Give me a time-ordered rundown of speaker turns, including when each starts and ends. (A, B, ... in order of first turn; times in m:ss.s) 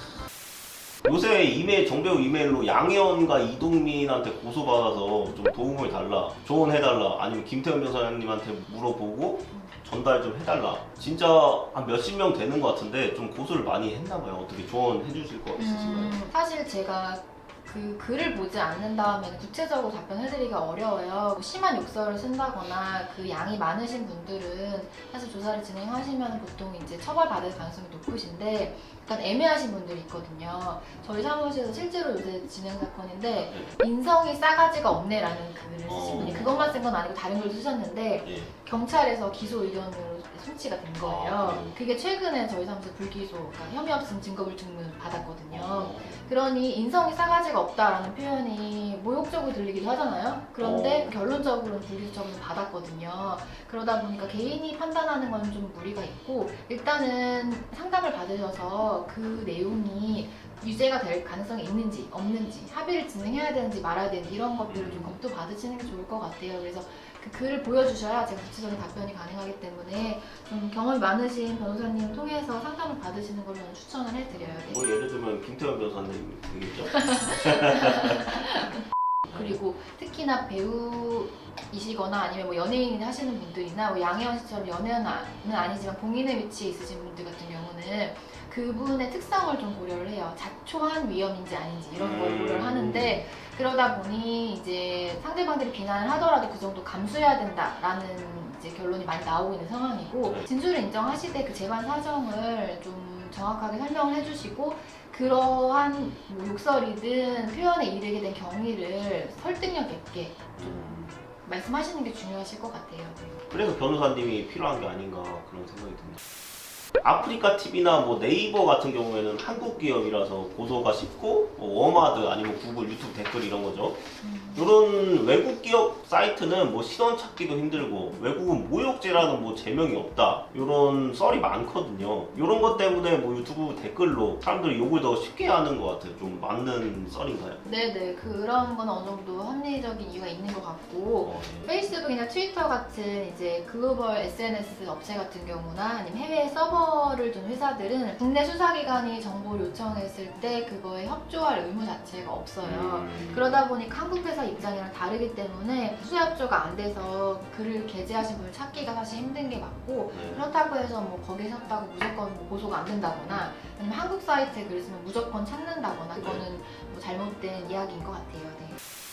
0:01.0-0:16.2 A
0:15.6-1:14.9 B
0:33.4-0:33.7 A
0:35.9-0:36.8 A
0:38.2-0:38.5 A
0:41.0-0:41.8 A
0:45.5-0:46.2 A
0:50.6-0:51.1 A
1:04.7-1:05.2 A
1:14.3-1:18.4 A
1:17.0-1:18.8 B
1:19.3-1:19.6 A
1:19.3-1:53.4 B
1:31.9-1:33.2 A
1:50.6-1:51.2 A
1:53.5-1:56.2 A
1:57.0-2:04.0 A
2:04.2-2:04.7 B
2:04.6-2:17.6 A
2:17.6-2:48.8 B
2:21.2-2:21.7 A
2:32.6-2:33.6 A
2:40.1-2:40.4 A
2:46.2-2:46.4 A